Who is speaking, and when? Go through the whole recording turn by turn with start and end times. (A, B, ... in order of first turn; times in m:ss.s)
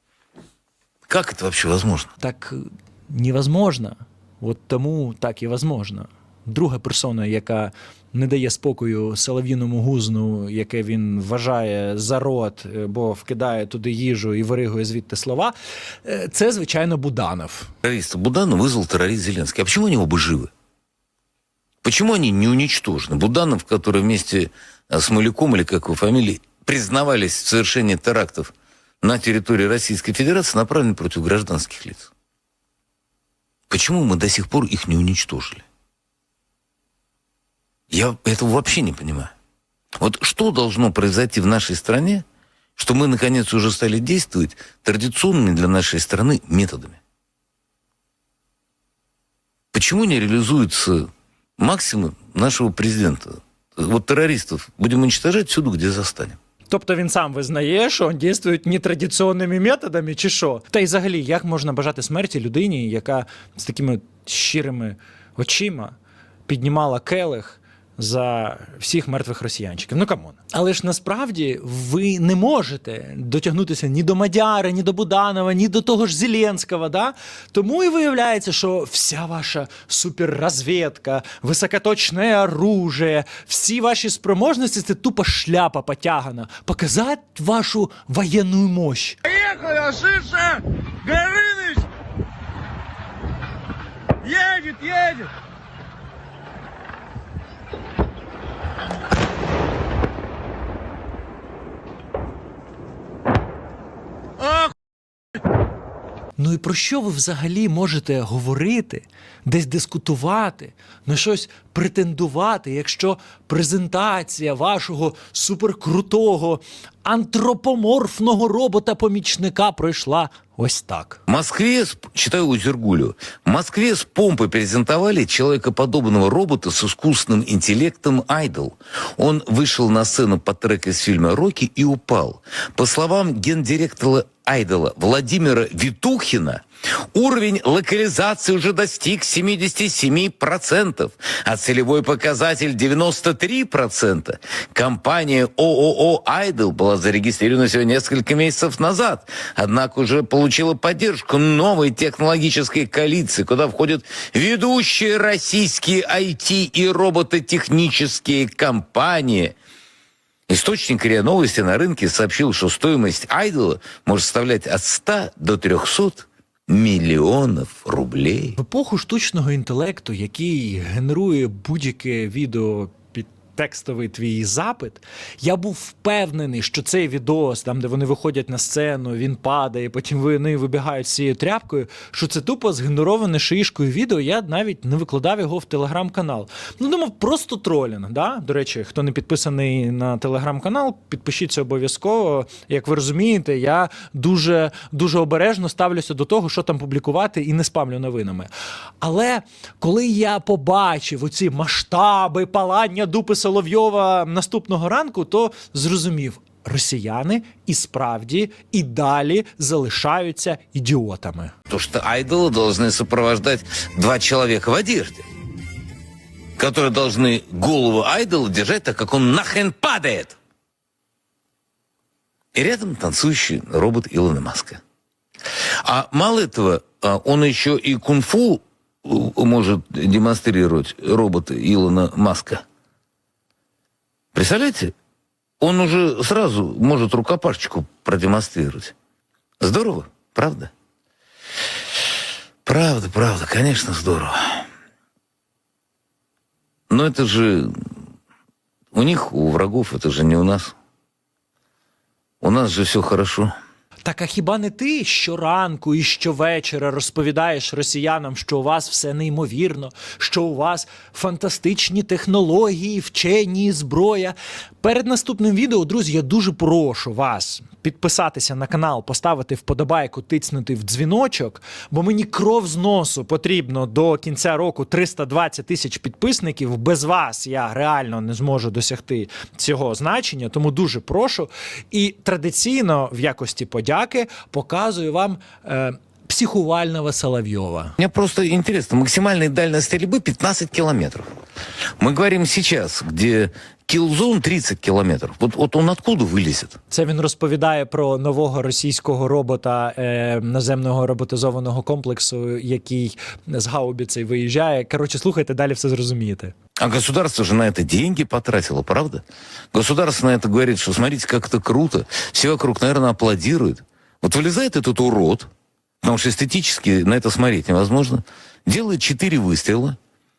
0:01.1-0:02.1 A
0:02.2-0:15.5 B
0:16.0-0:17.7 B
0:17.8-0:20.5 A
0:21.8-0:32.1 A
0:33.7-0:35.6 A
0:37.9-0:39.3 A
0:40.0-0:42.2 A
0:42.8-0:47.0 A
0:49.7-0:56.4 A
0:56.7-1:06.0 B
1:06.5-1:29.2 B
1:29.3-1:31.9 C
1:34.2-1:35.3 C
1:44.4-1:44.7 C
1:46.4-2:01.2 B
2:01.3-2:39.6 A
2:40.5-2:48.6 A
2:48.6-3:18.5 B
3:19.0-3:31.5 B
3:31.7-3:35.3 A
3:36.6-3:40.4 A
3:42.5-3:44.8 A
3:45.8-3:52.6 A
3:54.3-3:54.9 A
3:55.6-3:58.9 A
3:59.6-4:00.7 A
4:02.6-4:04.7 A
4:06.9-4:07.8 A
4:08.9-4:10.8 A
4:12.4-4:13.5 A
4:14.0-4:48.0 B
4:48.0-4:51.3 A
4:52.0-4:56.8 A
4:56.9-5:06.5 B
5:06.8-5:15.5 A
5:16.0-5:20.0 A